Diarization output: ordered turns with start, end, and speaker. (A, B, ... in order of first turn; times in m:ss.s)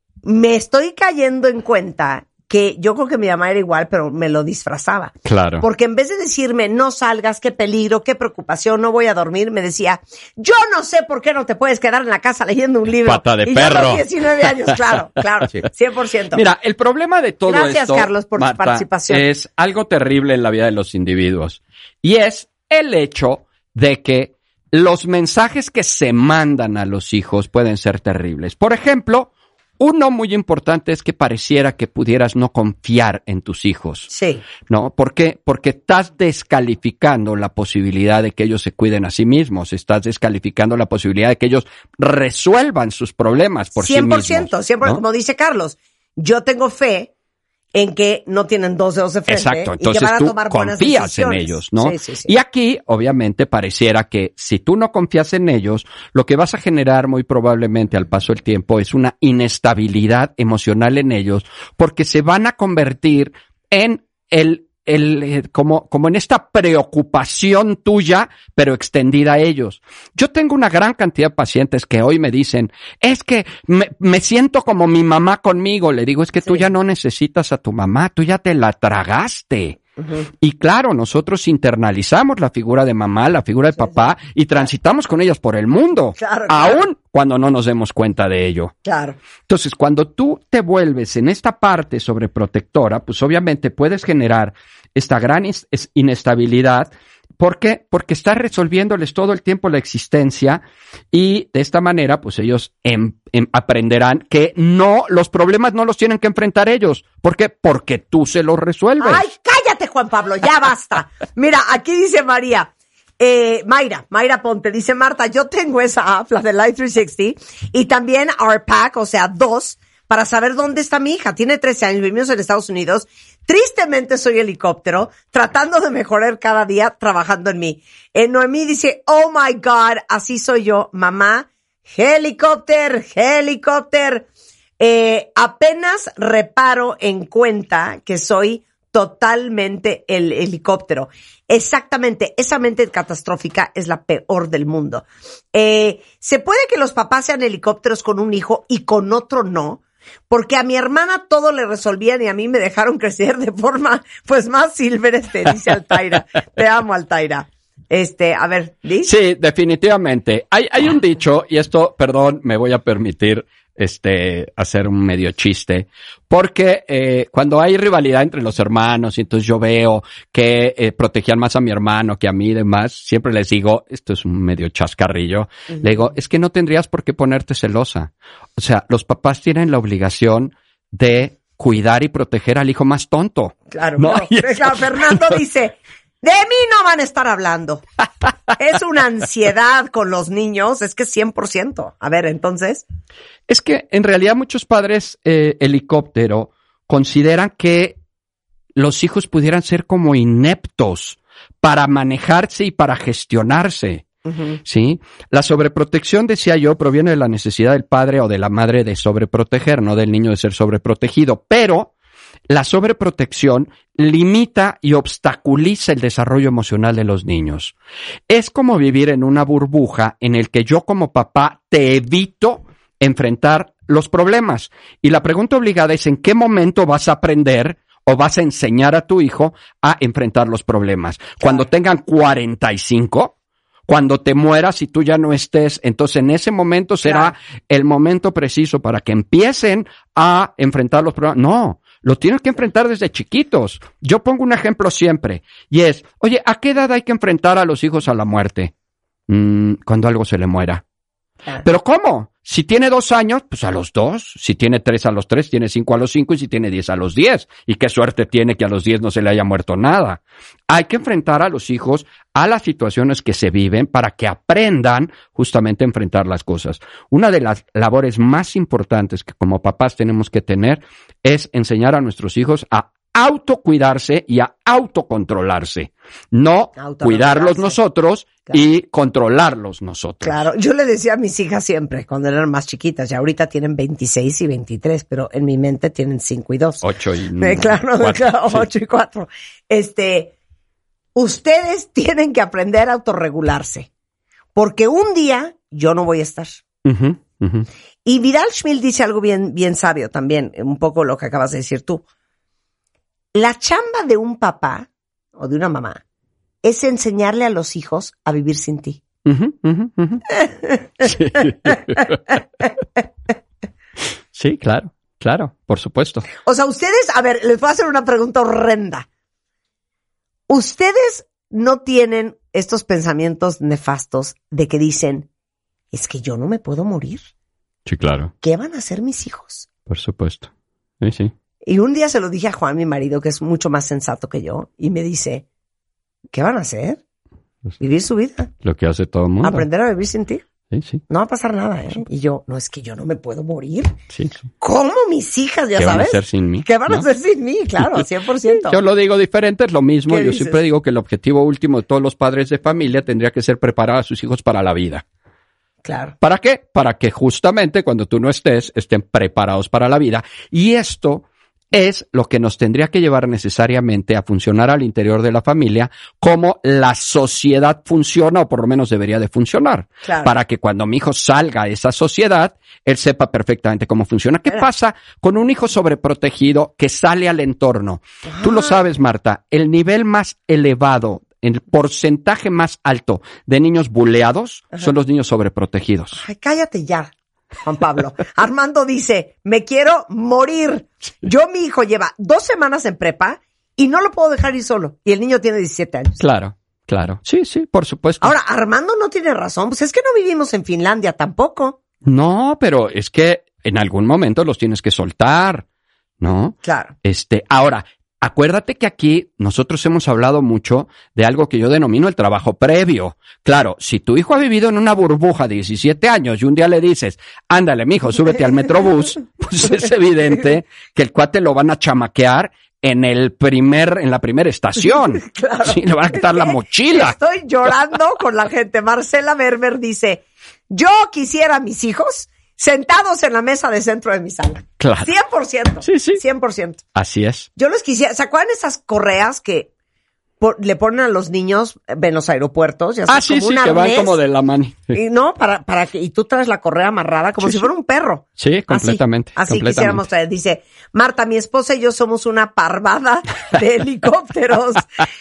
0:00.2-0:16.4 A
0:05.2-0:05.6 B
0:13.0-0:14.1 B
0:16.3-0:34.1 B
0:17.5-0:19.2 A
0:34.1-0:34.4 A
0:34.7-0:45.0 B
0:43.8-0:47.1 A
0:47.7-0:52.3 A
0:49.3-1:19.8 B
1:20.4-1:28.7 B
1:26.2-1:26.8 A
1:28.8-1:29.2 A
1:29.5-1:40.6 B
1:41.1-1:49.2 B
1:49.0-2:14.3 A
2:14.8-2:39.1 A
2:39.0-3:05.3 B
3:03.7-3:07.8 A
3:08.5-3:12.8 A
3:13.5-3:18.0 B
3:18.8-3:24.1 B
3:24.3-3:24.6 A
3:24.6-3:31.9 B
3:32.5-3:37.7 B
3:38.3-3:53.3 B
3:51.4-3:51.6 A
3:53.9-4:08.7 B
3:57.0-3:57.3 A
4:09.3-4:10.8 B
4:11.6-4:40.4 B
4:36.8-4:37.8 A
4:40.2-4:46.8 A
4:46.8-4:48.7 B
4:47.4-4:50.3 A
4:51.1-4:53.9 A
4:54.5-4:56.6 A
4:56.8-4:57.7 B
4:58.0-5:02.0 A
5:03.4-5:06.0 A
5:06.6-5:09.0 A
5:09.2-5:10.2 B
5:10.3-5:11.8 A
5:11.0-5:12.2 B
5:14.3-5:16.2 B
5:16.4-5:19.1 A
5:20.5-5:25.3 A
5:25.9-5:27.2 A
5:27.9-5:28.3 B
5:28.4-5:29.7 A
5:29.9-5:30.5 B
5:31.0-5:31.3 B
5:31.6-5:35.4 A
5:36.3-5:37.0 A
5:37.8-5:38.5 A
5:38.6-5:39.7 B
5:39.4-5:40.4 A
5:40.7-5:41.0 B
5:41.1-5:44.0 A
5:44.6-5:48.8 A
5:45.8-5:47.1 B
5:48.6-5:55.0 B
5:50.1-5:50.6 A
5:55.8-5:56.1 A
5:56.2-6:26.2 B
6:10.0-6:10.3 A
6:18.3-6:18.7 A
6:26.2-6:27.1 A
6:27.6-6:36.2 A
6:36.2-6:38.4 B
6:38.2-6:41.8 A
6:42.0-6:45.6 B
6:46.2-7:07.2 B
6:46.6-6:46.9 A
7:05.2-7:16.8 A
7:14.8-7:15.1 B
7:15.8-7:16.2 B
7:17.0-7:17.5 B
7:17.6-7:19.7 A
7:20.4-7:24.2 A
7:23.1-7:25.0 B
7:24.9-7:34.9 A
7:27.4-7:27.6 B
7:28.4-7:30.0 B